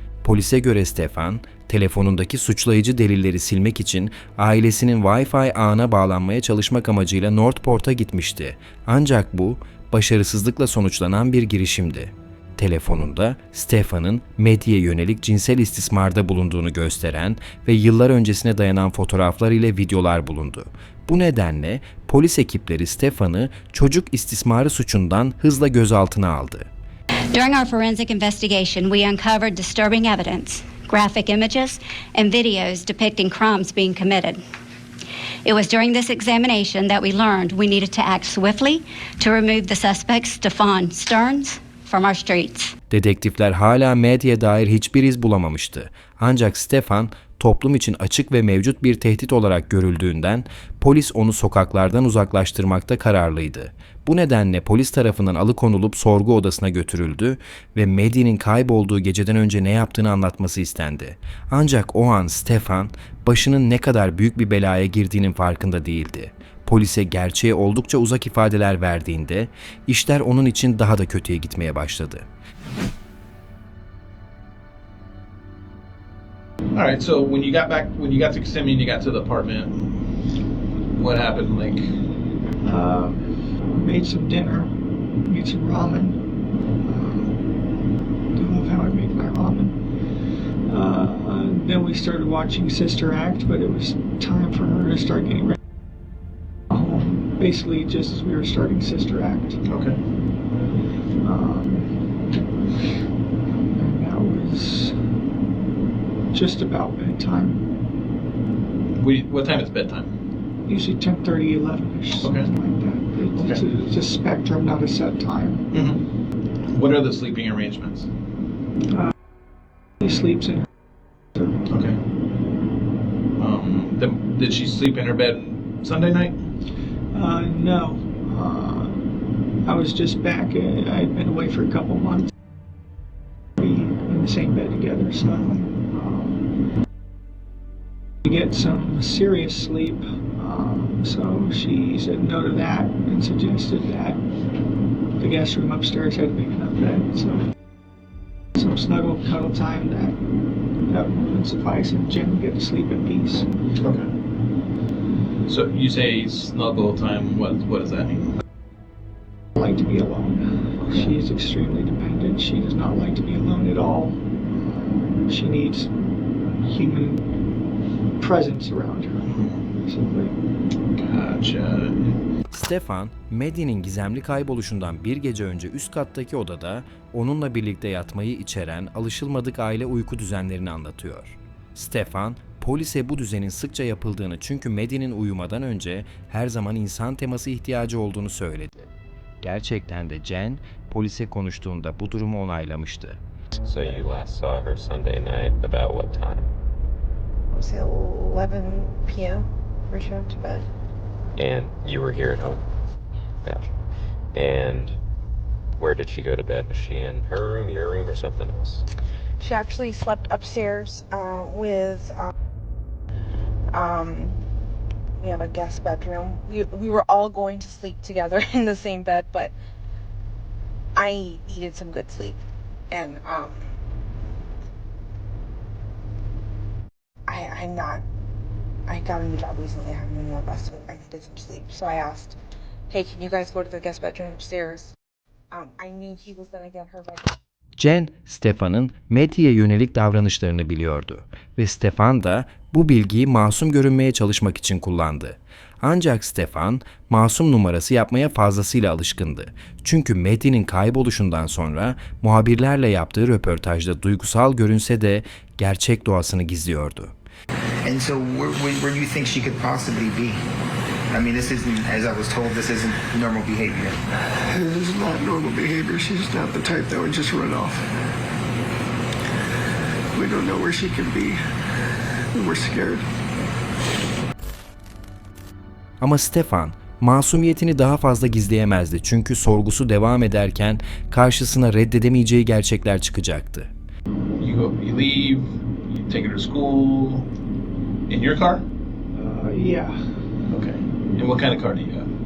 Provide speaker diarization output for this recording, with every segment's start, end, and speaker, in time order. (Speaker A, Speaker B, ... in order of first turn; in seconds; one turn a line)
Speaker A: 0.2-26.7
Speaker B: 27.3-34.4
Speaker B: 35.4-42.7
Speaker A: 42.9-72.2
Speaker C: 76.7-79.8
Speaker C: 80.9-81.9
Speaker D: 82.6-84.7
Speaker D: 85.3-86.2
Speaker D: 86.8-87.3
Speaker D: 88.3-89.7
Speaker D: 90.7-95.6
Speaker D: 96.7-99.6
Speaker C: 99.7-100.0
Speaker D: 101.2-101.9
Speaker D: 103.8-104.9
Speaker D: 106.3-107.6
Speaker C: 109.0-110.1
Speaker D: 110.7-115.7
Speaker C: 113.4-113.6
Speaker C: 115.7-116.0
Speaker C: 116.7-118.1
Speaker D: 120.0-120.7
Speaker C: 121.7-122.0
Speaker C: 123.4-126.4
Speaker D: 127.1-129.0
Speaker D: 129.7-132.3
Speaker D: 133.6-136.5
Speaker D: 138.2-144.2
Speaker D: 145.2-147.4
Speaker D: 148.6-150.2
Speaker D: 150.9-153.5
Speaker C: 153.8-154.1
Speaker C: 155.5-158.2
Speaker D: 159.6-164.2
Speaker D: 165.2-165.9
Speaker D: 166.6-167.2
Speaker D: 168.2-170.3
Speaker C: 169.2-169.6
Speaker C: 170.9-172.2
Speaker A: 172.5-188.9
Speaker A: 189.4-193.2
Speaker E: 193.6-196.5
Speaker F: 197.6-200.6
Speaker E: 201.4-202.6
Speaker E: 204.3-204.9
Speaker E: 205.8-208.8
Speaker F: 209.4-212.3
Speaker F: 213.7-214.3
Speaker F: 215.2-219.5
Speaker F: 221.0-222.3
Speaker F: 222.9-223.5
Speaker F: 227.3-228.0
Speaker F: 228.9-232.3
Speaker F: 232.9-234.9
Speaker F: 235.5-237.2
Speaker A: 237.8-257.1
Speaker G: 257.8-260.4
Speaker G: 261.1-263.9
Speaker H: 264.5-267.8
Speaker H: 270.1-271.4
Speaker H: 272.3-273.0
Speaker A: 276.0-283.7
Speaker C: 284.4-287.3
Speaker C: 288.1-288.7
Speaker D: 289.1-290.0
Speaker C: 290.5-292.1